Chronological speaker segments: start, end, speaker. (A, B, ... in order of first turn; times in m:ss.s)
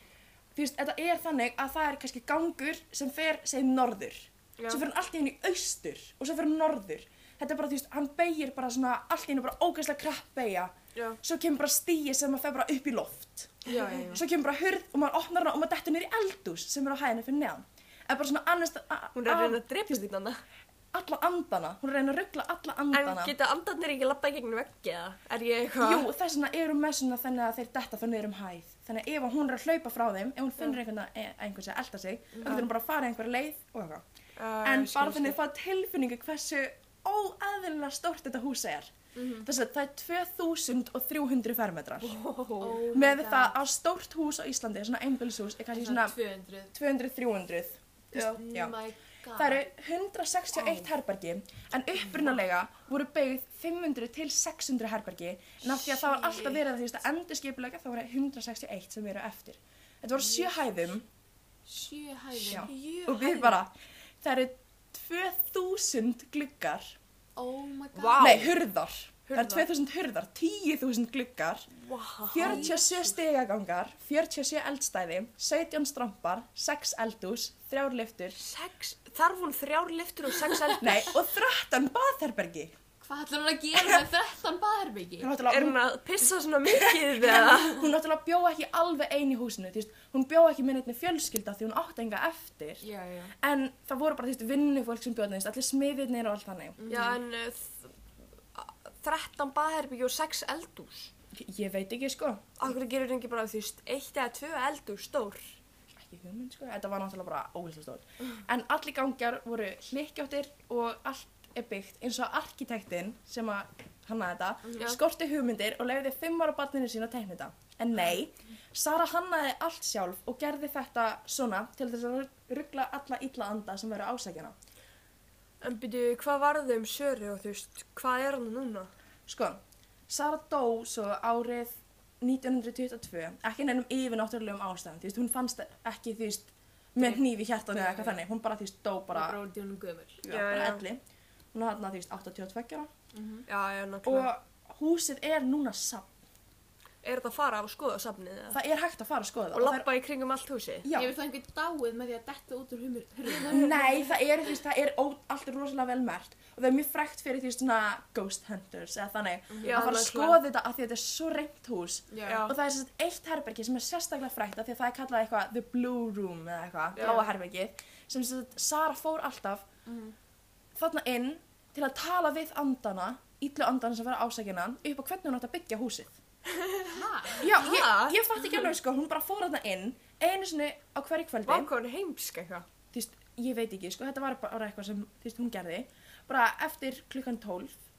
0:00.5-0:20.0 A
0:04.6-0:04.8 B
0:13.6-0:14.2 B
0:13.7-0:14.1 C
0:19.1-0:20.4 B
0:20.9-0:23.3 A
0:22.9-0:26.1 B
0:25.8-0:34.0 A
0:32.4-0:32.7 B
0:34.4-0:35.4 B
0:34.6-0:42.2 A
0:39.2-0:39.4 C
0:42.0-0:42.8 B
0:42.6-0:43.6 C
0:42.9-0:46.2 A
0:45.7-0:46.7 C
0:46.7-0:47.8 A
0:48.1-0:48.4 B
0:48.1-0:49.6 C
0:49.4-1:01.0 A
0:55.8-0:56.6 C
1:01.7-1:03.5 C
1:02.5-1:07.0 A
1:02.5-1:03.4 B
1:07.4-1:08.5 C
1:07.9-1:08.5 B
1:08.2-1:11.7 A
1:09.3-1:09.7 B
1:11.8-1:12.8 B
1:12.3-1:18.4 A
1:12.4-1:13.2 C
1:18.4-1:21.1 B
1:20.8-1:22.7 A
1:23.0-1:25.3 C
1:25.2-1:32.8 A
1:25.5-1:27.9 B
1:32.8-1:33.3 C
1:33.4-1:36.8 A
1:36.8-1:37.2 C
1:36.9-1:38.0 B
1:38.5-1:41.1 B
1:41.3-1:42.6 A
1:42.6-1:45.4 B
1:45.9-2:04.5 A
1:54.7-1:55.0 B
2:05.6-2:08.9 B
2:09.3-2:19.4 A
2:17.0-2:18.2 C
2:19.1-2:20.2 C
2:20.2-2:20.8 B
2:20.3-2:21.0 A
2:21.5-2:22.9 A
2:23.1-2:23.4 C
2:23.5-2:24.3 B
2:24.0-2:26.1 A
2:27.0-2:28.6 B
2:28.5-2:29.9 A
2:29.5-2:30.9 B
2:30.8-2:31.1 A
2:30.9-2:34.1 C
2:33.5-2:49.6 A
2:39.5-2:39.8 C
2:39.6-2:40.4 B
2:42.1-2:42.5 C
2:42.2-2:42.6 B
2:47.0-2:47.2 C
2:49.9-2:50.1 C
2:50.8-2:56.2 A
2:56.5-2:58.7 B
2:56.8-2:57.6 C
2:57.4-3:01.7 A
3:01.4-3:02.6 B
3:02.9-3:07.8 A